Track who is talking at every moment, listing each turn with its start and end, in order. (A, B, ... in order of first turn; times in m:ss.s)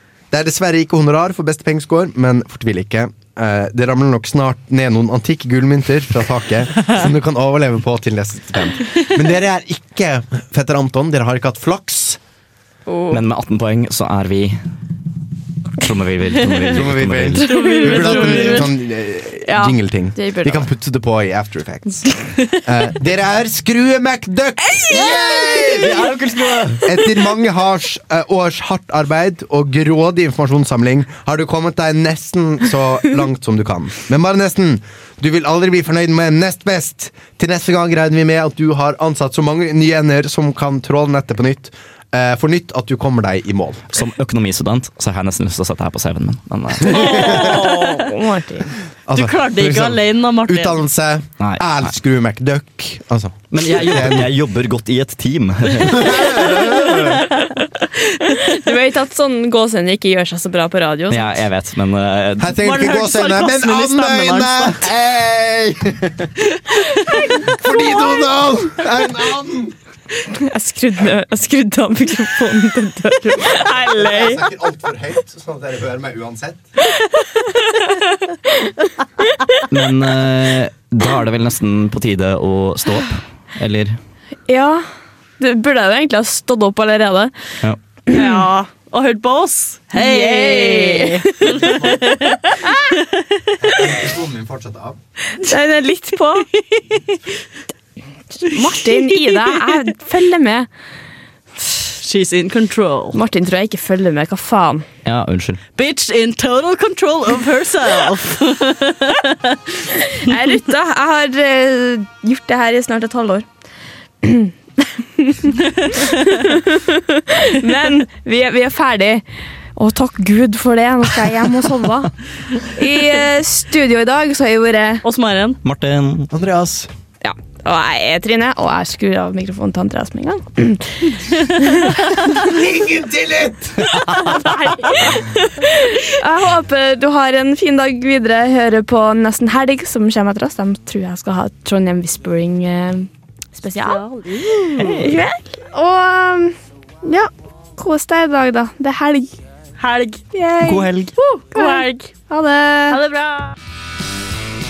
0:00.3-0:12.2 A
0:12.9-0:13.2 B
0:13.1-0:14.6 C
0:15.8-0:17.4 C
0:16.7-0:26.2 A
0:17.4-0:18.7 D
0:17.5-0:17.9 B
0:19.5-0:20.7 B
0:25.8-0:26.8 C
0:26.8-0:43.8 A
0:43.9-0:47.1 C
0:46.9-0:48.1 D
0:47.0-0:47.4 A
0:47.0-0:48.7 B
0:49.1-0:54.3 A
0:49.1-0:50.8 D
0:51.4-0:51.9 C
0:53.5-0:56.4 C
0:55.8-0:57.2 A
0:58.3-1:01.4 B
1:01.1-1:02.6 C
1:02.4-1:06.3 A
1:02.6-1:04.9 D
1:07.1-1:07.9 B
1:07.4-1:09.8 A
1:10.3-1:14.4 B
1:13.9-1:16.6 A
1:17.7-1:18.7 B
1:19.7-1:24.0 C
1:24.5-1:24.8 B
1:25.4-1:27.3 B
1:28.1-1:28.4 B
1:28.1-1:33.4 D
1:29.9-1:31.3 B
1:31.6-1:32.0 A
1:32.6-1:32.9 B
1:33.6-1:35.0 A
1:35.4-1:36.5 B
1:36.7-1:37.2 D
1:38.4-1:40.7 B
1:39.0-1:39.8 D
1:42.0-1:43.2 D
1:43.1-1:44.8 B
1:45.0-1:45.6 C
1:45.8-1:49.6 D
1:50.1-1:53.4 B
1:54.2-1:59.2 B
1:55.8-1:56.4 D
1:59.8-2:05.0 B
2:05.0-2:05.6 D
2:05.6-2:06.3 C
2:06.3-2:06.9 A
2:07.2-2:12.2 B
2:12.3-2:14.0 A
2:14.2-2:24.0 B
2:23.9-2:25.1 D
2:24.8-2:25.2 C
2:25.0-2:29.4 B
2:29.8-2:30.2 D
2:30.3-2:30.9 B
2:30.7-2:31.1 C
2:31.2-2:32.1 D
2:31.5-2:33.0 B
2:32.9-2:33.5 D